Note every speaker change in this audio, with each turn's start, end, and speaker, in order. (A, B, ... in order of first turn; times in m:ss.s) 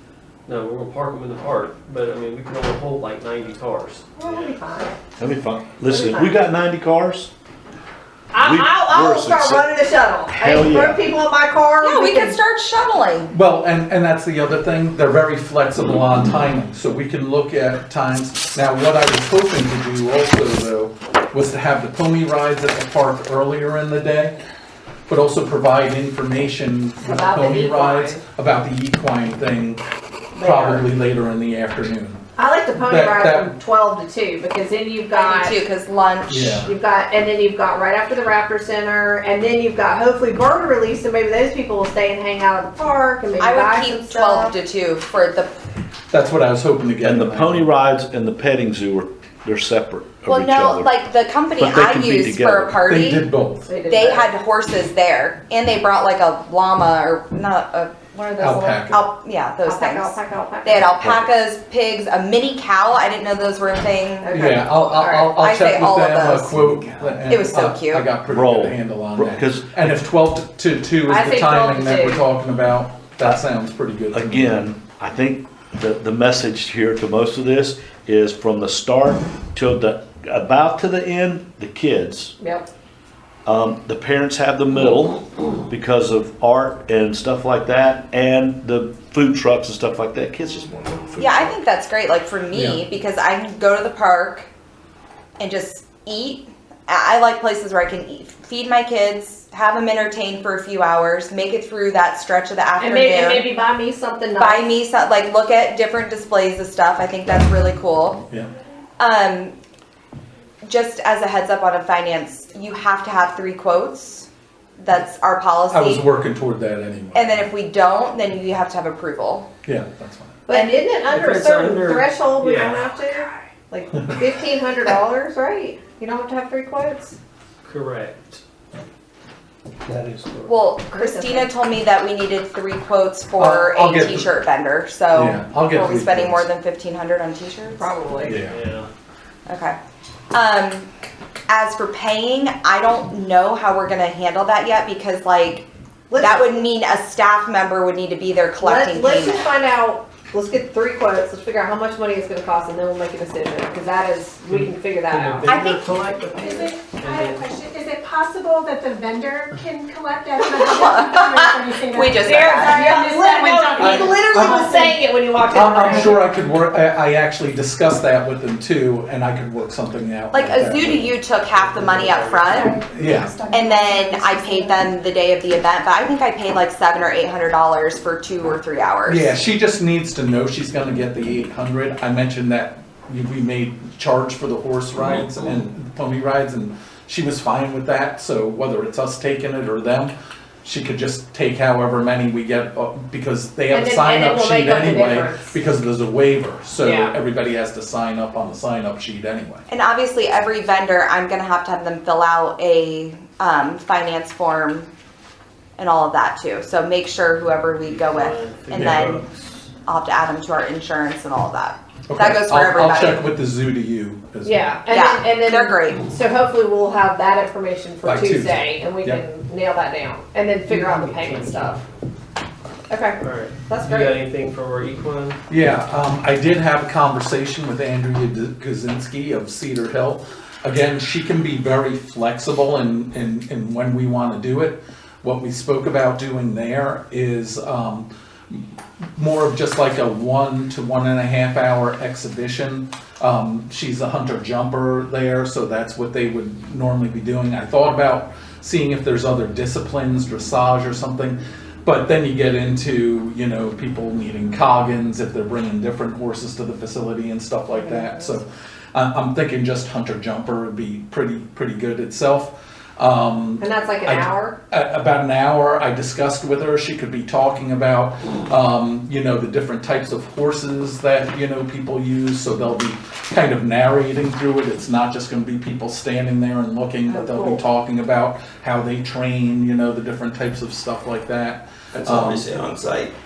0:00.4-0:04.6 A
0:04.2-0:05.0 B
0:05.2-0:07.3 C
0:05.9-0:06.4 B
0:08.3-0:12.4 B
0:08.4-0:09.7 C
0:10.3-0:11.0 C
0:11.8-0:13.3 D
0:13.3-0:24.3 E
0:25.1-0:29.8 E
0:27.0-0:28.2 B
0:30.3-0:30.8 B
0:30.4-0:32.2 E
0:32.4-0:35.6 B
0:32.8-0:33.5 E
0:35.1-0:36.6 D
0:36.3-0:36.7 E
0:36.6-0:44.5 B
0:43.4-0:45.6 D
0:46.1-0:47.6 E
0:47.0-0:51.0 C
0:50.3-0:53.2 D
0:51.5-0:52.9 C
0:52.8-0:53.7 E
0:53.7-0:54.3 B
0:53.9-1:00.1 D
0:58.4-0:59.0 E
0:59.6-1:00.9 B
1:00.6-1:04.8 D
1:00.9-1:01.3 C
1:04.2-1:05.3 B
1:04.3-1:14.6 E
1:05.3-1:06.5 D
1:07.3-1:08.1 D
1:08.3-1:09.7 C
1:11.0-1:12.2 B
1:14.1-1:22.3 C
1:22.4-1:22.7 B
1:23.4-1:31.6 C
1:31.2-1:34.5 D
1:32.5-1:32.8 E
1:35.4-1:43.4 D
1:42.8-1:44.7 B
1:44.4-1:48.2 D
1:49.0-1:49.5 D
1:50.6-1:54.3 D
1:54.8-1:56.0 D
1:55.7-1:57.5 E
1:57.1-1:59.5 D
1:59.6-2:00.4 E
2:00.5-2:07.2 B
2:00.5-2:00.8 D
2:01.0-2:02.9 A
2:07.6-2:08.4 A
2:09.8-2:10.7 A
2:10.5-2:17.8 D
2:10.9-2:11.5 B
2:13.4-2:14.3 E
2:15.1-2:16.5 E
2:17.8-2:18.4 B
2:18.2-2:18.6 E
2:18.4-2:18.9 A
2:19.5-2:19.8 D
2:20.3-2:20.9 D
2:21.5-2:29.4 D
2:26.1-2:26.6 B
2:28.6-2:35.4 B
2:34.5-2:37.5 A
2:35.4-2:35.8 D
2:36.4-2:45.0 F
2:40.5-2:42.9 D
2:42.2-2:46.3 B
2:43.8-2:44.6 E
2:45.5-2:51.1 E
2:50.3-2:52.8 D
2:51.5-2:52.6 A
2:52.5-2:54.9 F
2:52.9-2:53.4 E
2:53.5-2:59.3 D
2:59.0-3:19.6 E
3:13.7-3:15.5 B
3:16.8-3:17.1 B
3:19.7-3:24.9 D
3:25.8-3:29.1 D
3:27.8-3:29.7 A
3:28.7-3:29.2 E
3:29.8-3:33.2 D
3:32.1-3:34.6 E
3:34.4-3:41.8 B
3:34.9-3:36.0 D
3:38.0-3:39.2 E
3:40.7-3:41.8 A
3:42.9-3:44.2 B
3:43.2-3:45.4 A
3:45.5-3:58.6 E
3:59.2-4:42.5 E
4:17.7-4:18.1 B
4:23.6-4:24.6 B
4:37.1-4:37.6 B
4:42.0-4:42.6 C
4:42.6-4:43.1 A